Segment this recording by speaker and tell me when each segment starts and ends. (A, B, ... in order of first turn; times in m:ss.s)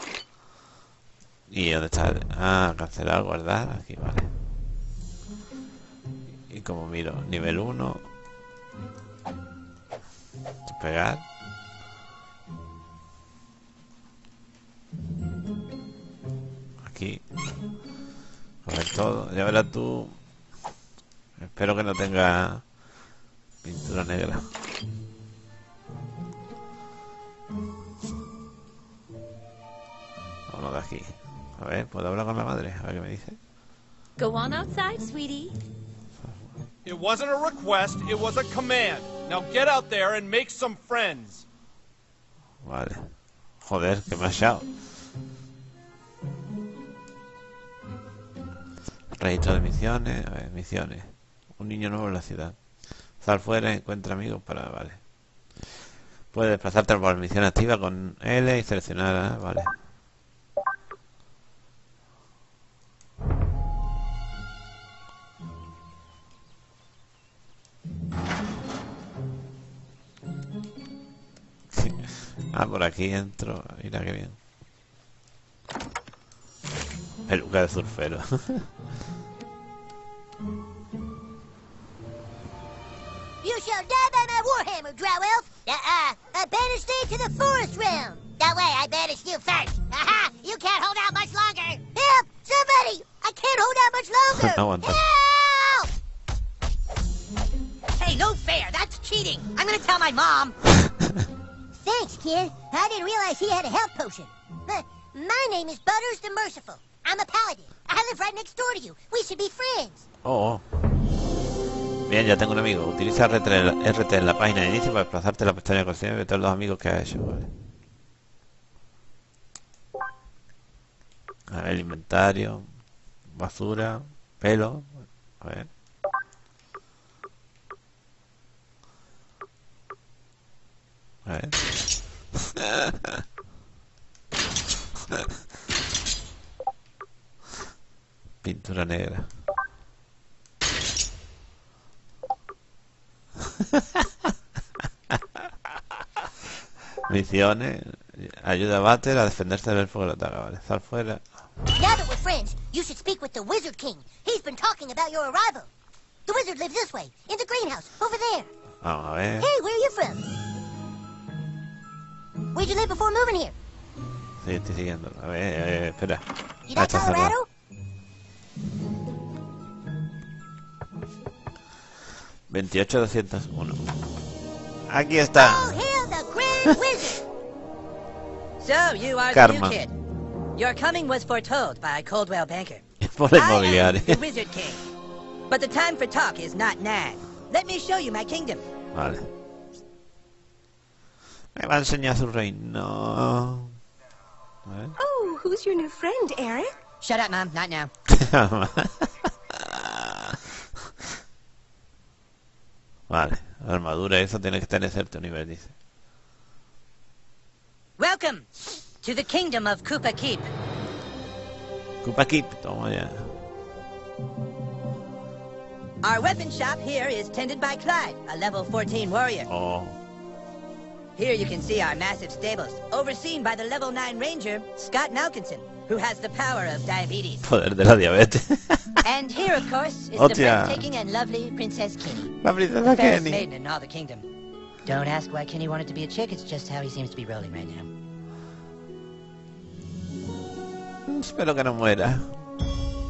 0:01.5-0:04.3 A
0:06.5-0:08.1 A
0:10.6-0:11.2 A
0:16.8-0:17.2 A
0:18.6-0:20.2 A
0:21.4-0:22.6 A
0:23.6-0:24.5 A
0:30.5-0:33.4 A
0:34.2-0:35.6 B
0:36.2-0:36.5 A
0:36.8-0:41.4 C
0:42.6-0:43.0 A
0:43.6-0:44.6 A
0:49.2-0:52.6 A
0:53.2-0:55.0 A
0:56.3-0:59.7 A
1:11.7-1:14.4 A
1:17.3-1:18.7 A
1:23.4-1:35.9 D
1:34.3-1:35.0 A
1:38.0-1:40.6 E
1:41.8-1:50.0 D
1:50.2-1:50.6 A
1:52.1-1:57.5 A
2:01.5-2:02.7 A
2:03.3-2:05.7 A
2:11.2-2:11.6 A
2:12.6-2:13.2 A
2:18.4-2:19.3 A
2:23.6-2:24.1 A
2:27.1-2:31.2 A
2:31.8-2:35.7 D
2:36.3-2:38.5 D
2:38.8-2:39.5 A
2:39.4-2:40.2 D
2:42.5-2:43.5 D
2:44.4-2:47.4 A
2:46.7-2:47.5 D
2:52.5-2:53.8 A
2:54.9-2:55.8 A
2:55.3-2:57.2 D
2:58.6-2:59.9 E
2:59.3-2:59.8 A
3:00.6-3:04.8 E
3:03.0-3:04.2 A
3:05.5-3:08.6 E
3:08.9-3:09.3 A
3:11.6-3:13.8 A
3:14.7-3:14.9 A
3:15.0-3:16.7 B
3:17.0-3:17.9 E
3:18.1-3:20.4 A
3:23.1-3:25.7 A
3:28.0-3:30.5 E
3:32.0-3:33.4 A
3:36.0-3:39.5 E
3:39.5-3:40.0 A
3:41.2-3:47.4 E
3:47.4-3:49.0 A
3:49.0-3:54.2 E
3:50.2-3:50.8 A
3:52.4-3:53.4 A
3:54.8-3:57.9 E
4:01.1-4:02.4 A